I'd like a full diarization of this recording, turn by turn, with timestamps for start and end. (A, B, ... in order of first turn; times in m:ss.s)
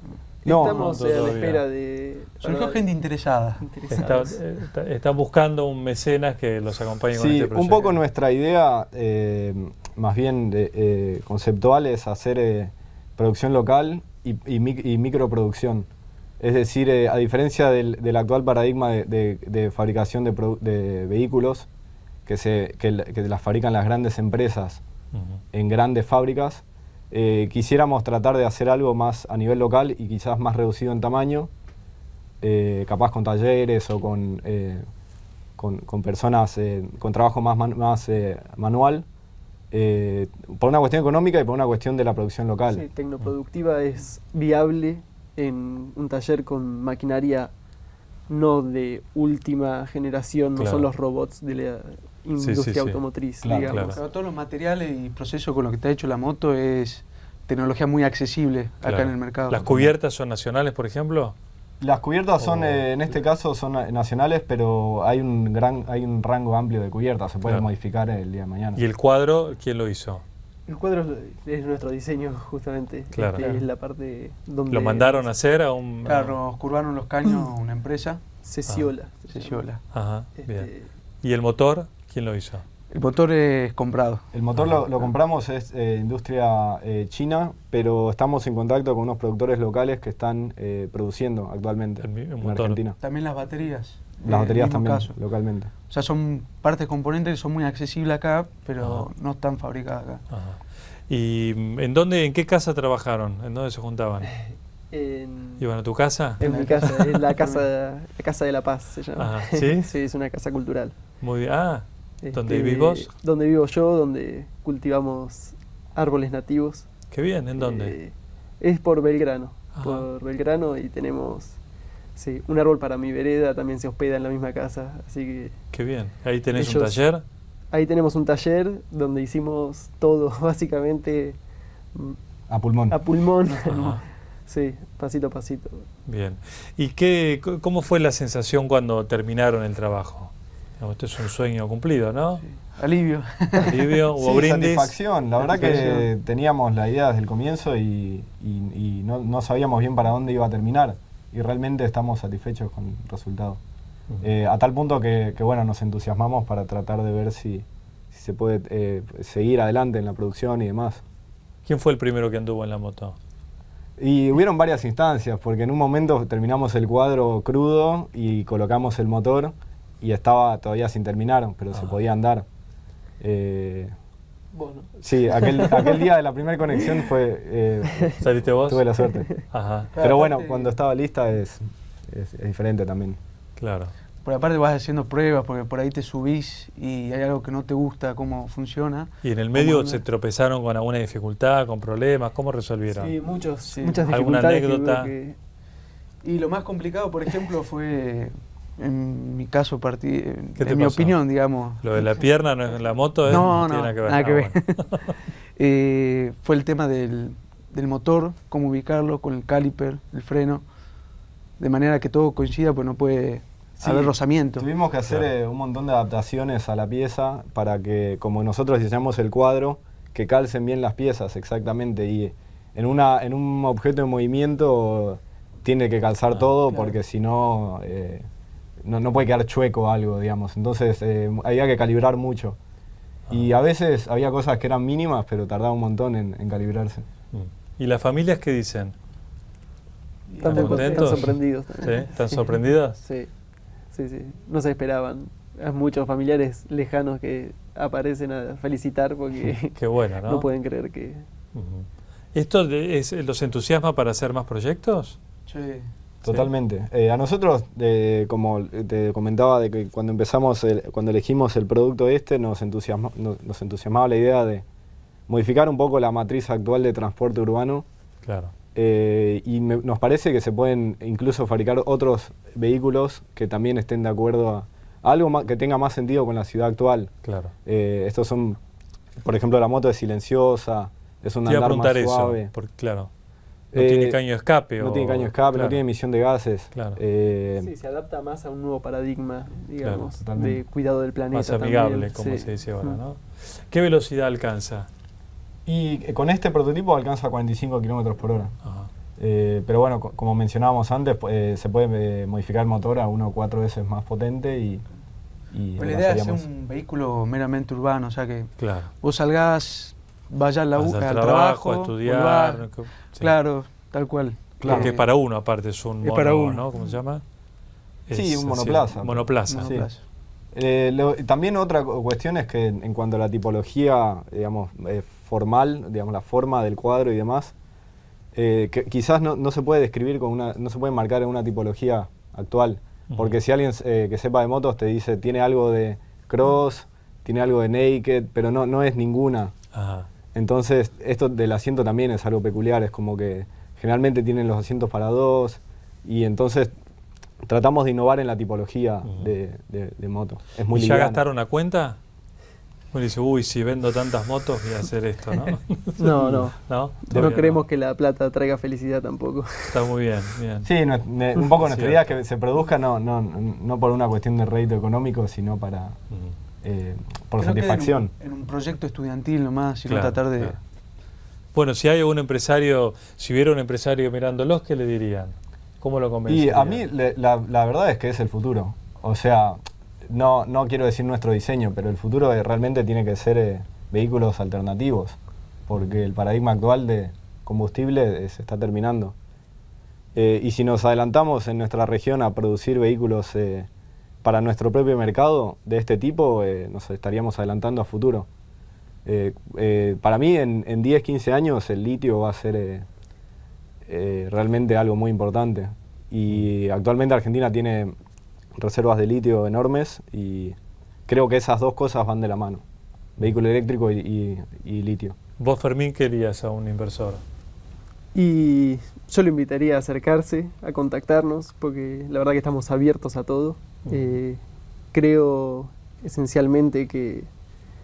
0:00.4-0:02.8 A
0:00.4-0:00.9 B
0:00.5-0:01.6 C
0:02.4-0:03.6 D
0:03.6-0:04.4 A
0:03.9-0:08.0 C
0:07.1-0:15.9 B
0:16.4-0:21.7 B
0:22.2-0:24.8 B
0:25.1-0:25.4 C
0:25.5-0:31.5 B
0:32.4-0:34.8 B
0:35.6-0:39.0 B
0:39.7-0:42.8 B
0:42.7-0:47.5 A
0:48.3-0:54.0 A
0:50.6-0:50.9 C
0:52.4-0:53.0 C
0:53.4-0:53.8 B
0:53.7-0:54.0 C
0:53.7-0:59.9 D
0:58.8-1:01.4 C
1:01.8-1:08.8 B
1:02.4-1:02.8 C
1:08.8-1:10.2 C
1:10.7-1:15.3 A
1:13.1-1:13.5 C
1:14.7-1:16.4 C
1:16.0-1:18.2 D
1:18.4-1:19.6 A
1:18.6-1:18.9 C
1:19.3-1:19.8 D
1:19.9-1:20.7 C
1:20.4-1:20.9 A
1:21.2-1:22.6 C
1:22.9-1:24.2 D
1:24.3-1:33.0 B
1:24.5-1:24.8 C
1:32.0-1:32.8 C
1:33.0-1:35.2 D
1:34.2-1:35.7 B
1:35.8-1:40.2 D
1:38.8-1:39.1 C
1:40.3-1:44.3 C
1:44.9-1:45.6 A
1:45.6-1:47.0 C
1:46.4-1:51.0 A
1:46.4-1:47.6 D
1:49.2-1:49.9 C
1:51.2-1:53.1 C
1:52.2-1:56.9 A
1:57.1-1:58.0 C
1:57.6-2:01.6 A
1:59.8-2:00.1 C
2:02.1-2:05.6 A
2:05.7-2:07.2 C
2:06.5-2:07.0 A
2:07.7-2:11.4 A
2:12.5-2:13.0 B
2:12.9-2:15.9 A
2:13.5-2:14.0 D
2:13.7-2:14.0 C
2:16.0-2:22.4 C
2:22.4-2:24.0 D
2:23.6-2:25.0 C
2:24.2-2:33.6 B
2:25.4-2:26.1 D
2:34.2-2:41.0 B
2:41.6-2:43.2 C
2:44.0-2:52.4 B
2:51.7-2:52.0 C
2:53.2-2:53.9 B
2:54.5-2:56.0 A
2:55.0-2:59.4 B
2:58.2-2:58.9 C
2:59.5-2:59.9 C
2:59.9-3:00.8 D
3:00.0-3:03.2 B
3:03.6-3:03.9 C
3:04.2-3:10.0 D
3:09.2-3:13.1 C
3:12.9-3:15.4 A
3:13.6-3:14.1 D
3:14.1-3:15.1 C
3:16.2-3:22.1 D
3:20.6-3:21.2 C
3:21.8-3:25.1 C
3:23.2-3:30.6 D
3:31.6-3:34.7 D
3:33.8-3:48.2 B
3:48.8-3:52.6 B
3:53.3-3:57.0 B
3:57.3-3:59.0 C
4:00.3-4:01.3 D
4:00.4-4:02.4 A
4:00.4-4:03.0 C
4:03.0-4:03.3 A
4:03.9-4:11.2 A
4:09.7-4:10.5 C
4:11.5-4:15.2 C
4:15.5-4:15.9 D
4:16.2-4:24.6 B
4:25.3-4:27.9 B
4:28.2-4:28.5 C
4:28.8-4:37.1 B
4:37.2-4:37.5 C
4:37.6-4:38.6 B
4:39.2-4:42.5 B
4:41.4-4:43.1 C
4:43.7-4:44.2 B
4:43.7-4:45.8 C
4:44.8-4:47.7 B
4:46.7-4:47.0 C
4:47.6-4:53.0 A
4:49.8-4:50.1 C
4:50.2-4:50.6 B
4:51.3-4:54.9 C
4:55.6-4:58.5 B
4:58.6-4:58.9 C
4:59.2-5:04.8 B
5:05.5-5:06.5 B
5:05.8-5:15.0 D
5:08.6-5:08.9 C
5:10.8-5:13.3 C
5:14.6-5:14.9 B
5:14.6-5:17.2 C
5:16.0-5:16.9 D
5:18.1-5:19.8 C
5:18.1-5:19.9 B
5:19.5-5:20.0 D
5:20.5-5:27.5 B
5:28.4-5:39.5 B
5:33.1-5:33.4 C
5:39.7-5:40.1 C
5:40.3-5:46.7 B
5:47.4-5:51.2 B
5:50.7-5:52.0 C
5:52.9-5:57.6 C
5:56.0-5:59.8 A
5:56.1-5:56.5 B
5:57.1-5:57.3 B
5:59.7-6:00.7 C
6:00.6-6:06.0 B
6:01.6-6:02.1 C
6:06.6-6:08.1 B
6:07.4-6:10.6 D
6:09.9-6:10.6 C
6:11.5-6:16.8 C
6:16.2-6:25.2 B
6:25.7-6:29.1 B
6:30.1-6:33.7 B
6:34.2-6:38.3 B
6:39.0-6:42.9 B
6:43.9-6:47.9 B
6:48.6-6:50.5 B
6:51.1-6:52.6 B
6:53.2-6:55.2 B
6:55.4-6:57.2 C
6:58.1-7:04.4 A
7:03.9-7:04.2 C
7:04.9-7:07.3 A